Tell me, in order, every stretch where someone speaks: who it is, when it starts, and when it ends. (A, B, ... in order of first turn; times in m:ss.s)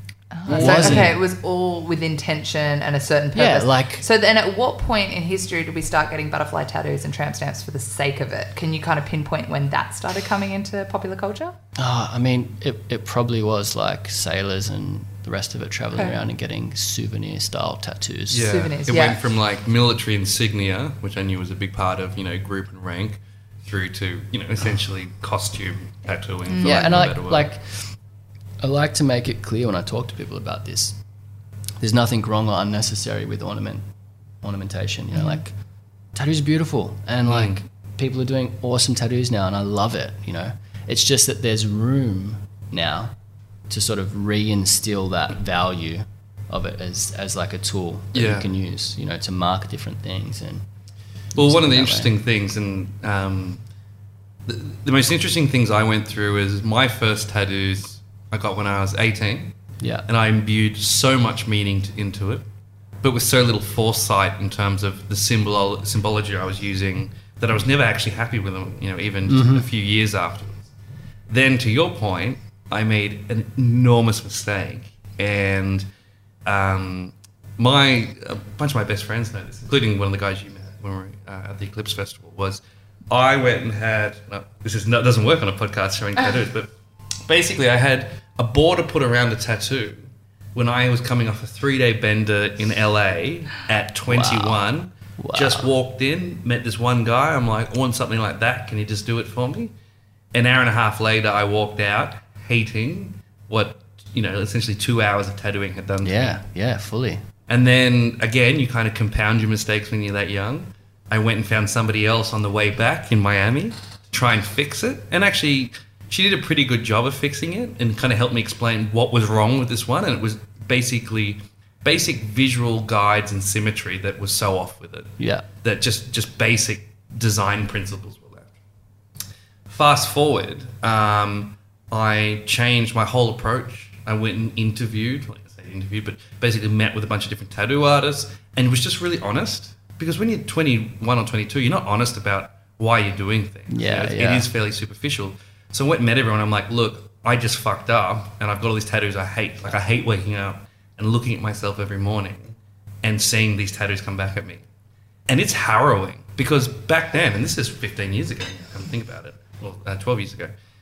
0:00.3-0:11.6 A
0:00.5-0:01.2 B
0:00.5-0:01.1 C
0:03.3-0:04.0 B
0:11.8-0:18.6 B
0:15.9-0:16.2 A
0:18.3-0:27.5 C
0:18.4-0:19.3 A
0:26.5-0:27.1 A
0:26.6-0:27.9 B
0:28.6-0:31.0 B
0:31.8-0:33.8 B
0:34.4-0:35.5 B
0:35.1-0:35.4 A
0:36.1-0:43.2 B
0:37.3-0:37.6 C
0:43.7-0:50.6 B
0:48.1-0:48.5 C
0:51.4-0:52.2 B
0:51.4-0:53.6 C
0:54.5-0:59.5 C
0:59.8-1:00.1 B
1:00.1-1:02.4 C
1:03.0-1:10.7 C
1:09.3-1:09.7 B
1:11.3-1:15.8 C
1:16.5-1:26.7 C
1:27.3-1:39.7 C
1:34.1-1:34.7 B
1:35.2-1:35.7 B
1:40.3-1:46.4 C
1:46.0-1:47.2 B
1:47.5-2:08.5 C
2:05.2-2:05.5 B
2:09.7-2:34.6 C
2:23.7-2:24.5 B
2:35.3-2:40.5 C